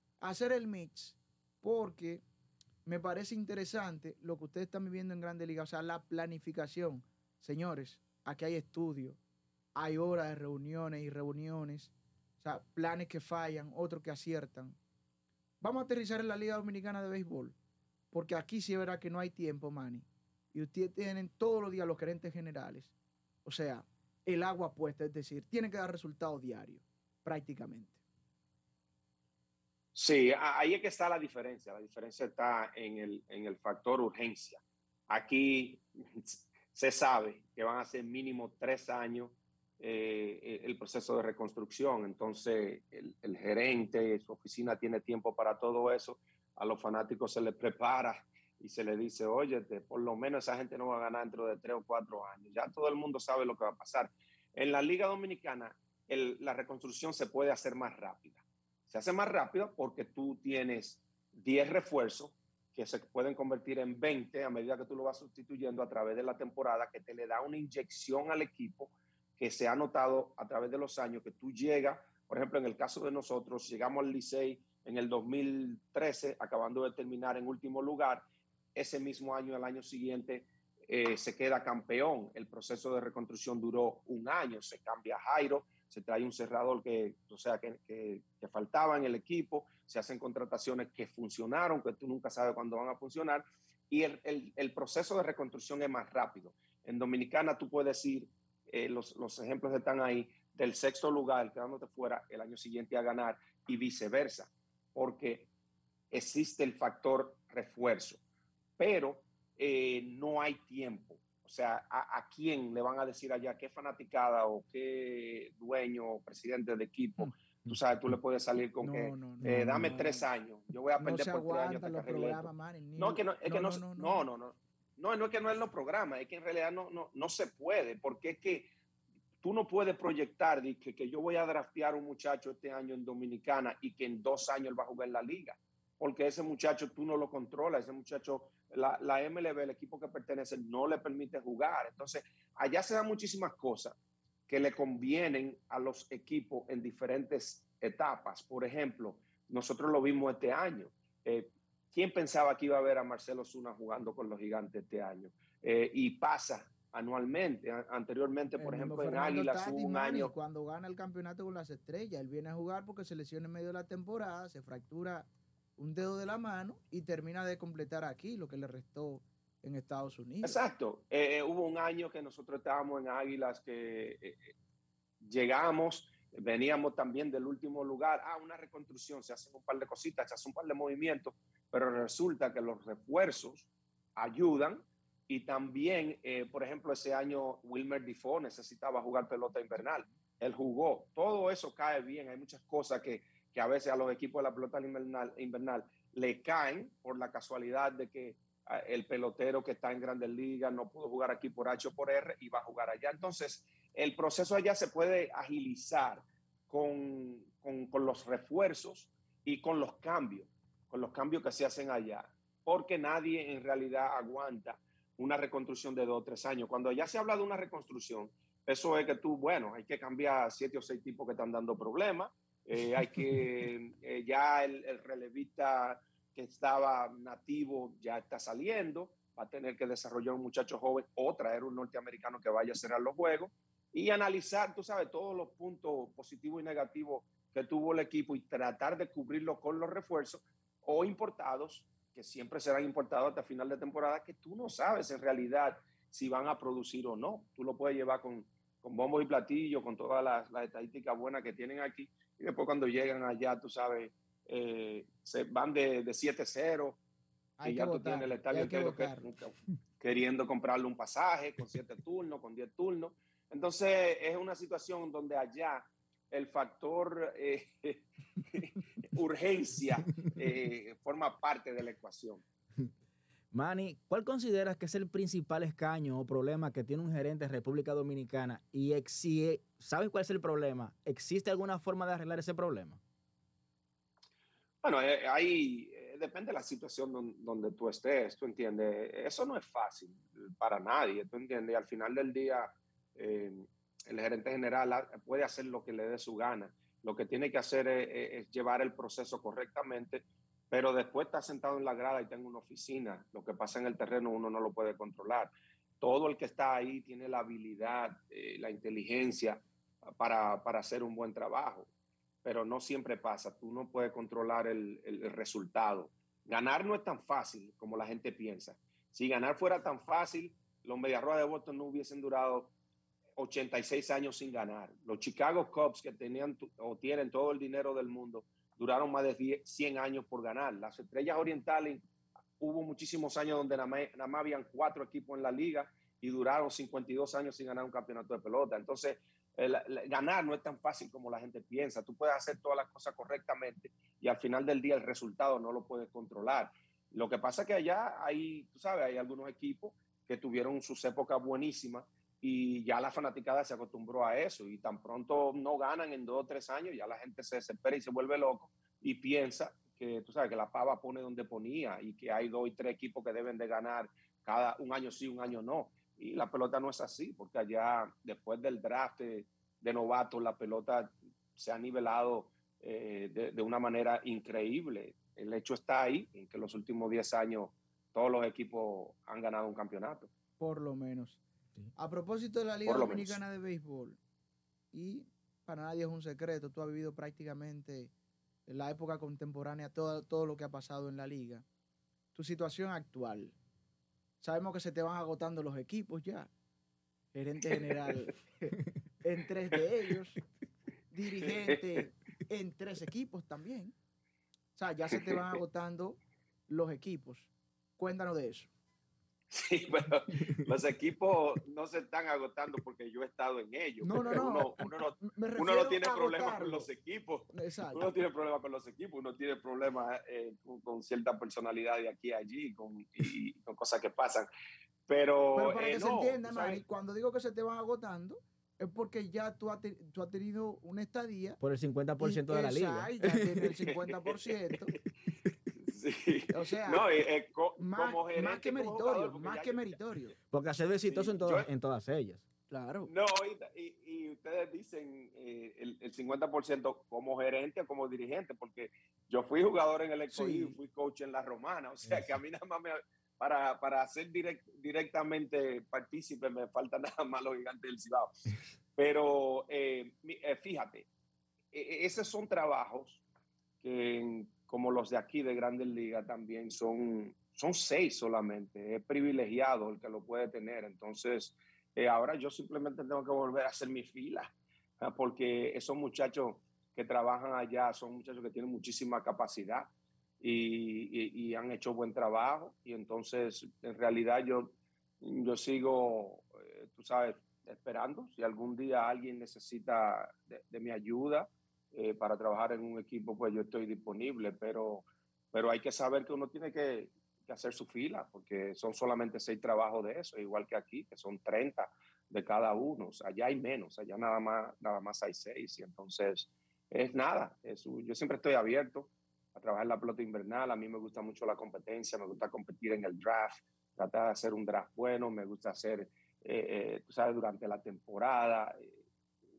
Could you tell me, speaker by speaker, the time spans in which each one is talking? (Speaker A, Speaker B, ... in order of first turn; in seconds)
Speaker A: 0.2-2.2, 2.9-9.2, 9.8-14.8, 15.6-17.6, 18.1-22.9, 23.4-28.0, 118.8-120.3, 121.0-124.2, 158.6-170.6, 257.6-259.2, 380.6-381.4, 382.0-384.2, 384.9-388.1, 388.7-391.6, 392.3-393.6, 394.4-396.5, 397.3-400.4, 401.1-403.9, 404.8-408.7, 414.0-416.9, 417.5-418.1, 425.6-431.6, 432.2-435.0, 436.5-437.1, 437.8-440.4, 442.7-443.1, 450.3-450.8
Speaker B: 29.9-105.5, 106.1-108.2, 108.8-128.7, 129.4-144.0, 144.5-160.3, 170.4-174.5, 175.2-257.0, 257.6-272.4, 284.8-311.9, 312.4-322.7, 323.4-332.0, 332.6-380.3, 382.9-383.4, 401.4-402.0, 405.1-405.6, 409.5-424.5, 425.1-426.8, 433.9-435.0, 435.8-440.0, 441.1-441.7, 443.1-458.3, 459.0-461.1, 461.7-463.2, 463.8-479.9, 480.4-519.0
Speaker C: 119.4-119.9, 273.5-283.0, 431.6-433.6, 440.5-442.4